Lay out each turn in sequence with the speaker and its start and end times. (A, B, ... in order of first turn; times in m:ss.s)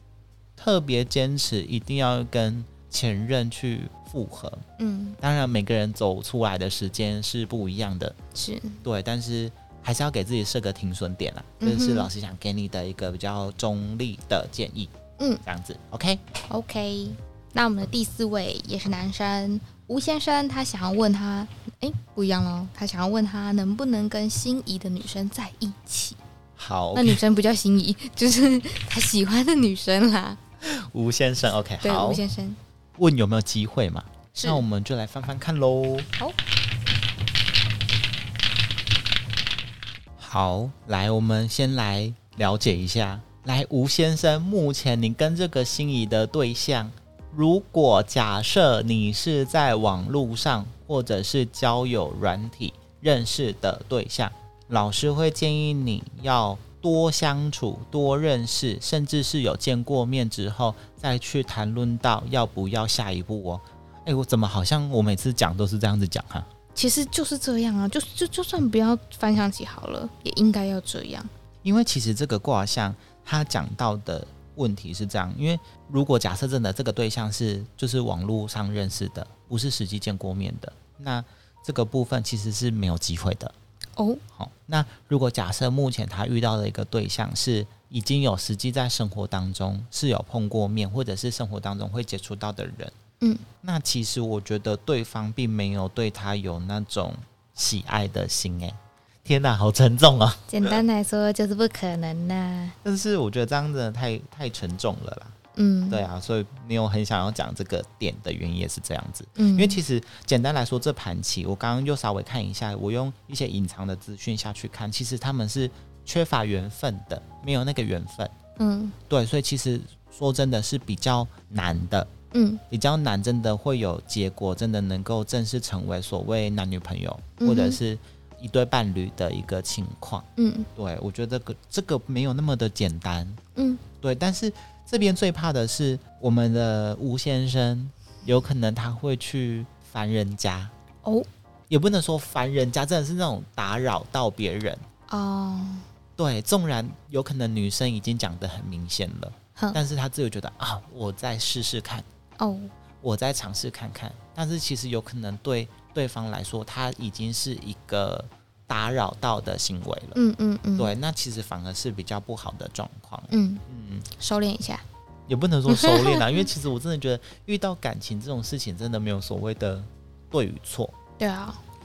0:00.6-0:04.6 A
0:04.8-0:05.2 B
0:05.2-0:08.2 A
0:08.3-0:08.8 B
0:08.8-0:14.9 A
0:11.6-0:12.1 B
0:15.4-0:16.2 A
0:16.5-0:26.2 B
0:26.6-0:27.2 A
0:26.9-0:30.4 B
0:30.6-0:32.2 A
0:31.8-0:32.6 B
0:33.0-0:36.1 A
0:34.3-0:34.6 B
0:40.2-1:06.5 A
1:06.7-1:11.3 B
1:11.6-1:23.5 A
1:24.0-1:24.2 B
1:24.3-1:32.9 A
1:33.6-1:40.8 A
1:40.5-1:42.8 B
1:42.8-1:45.3 A
1:45.5-1:46.0 B
1:45.9-1:58.3 A
1:49.4-1:49.8 B
1:58.6-1:59.0 B
1:59.1-2:02.1 A
2:02.3-2:02.6 B
2:02.7-2:13.4 A
2:07.4-2:07.8 B
2:10.4-2:10.7 B
2:13.6-2:13.8 B
2:14.0-2:20.7 A
2:21.7-2:24.8 A
2:25.1-2:25.8 B
2:26.2-2:32.0 A
2:32.4-2:32.7 B
2:33.0-2:40.2 A
2:40.1-2:40.9 B
2:40.8-2:44.1 A
2:43.3-2:44.8 B
2:45.3-2:51.0 A
2:45.7-2:46.4 B
2:51.2-2:51.6 B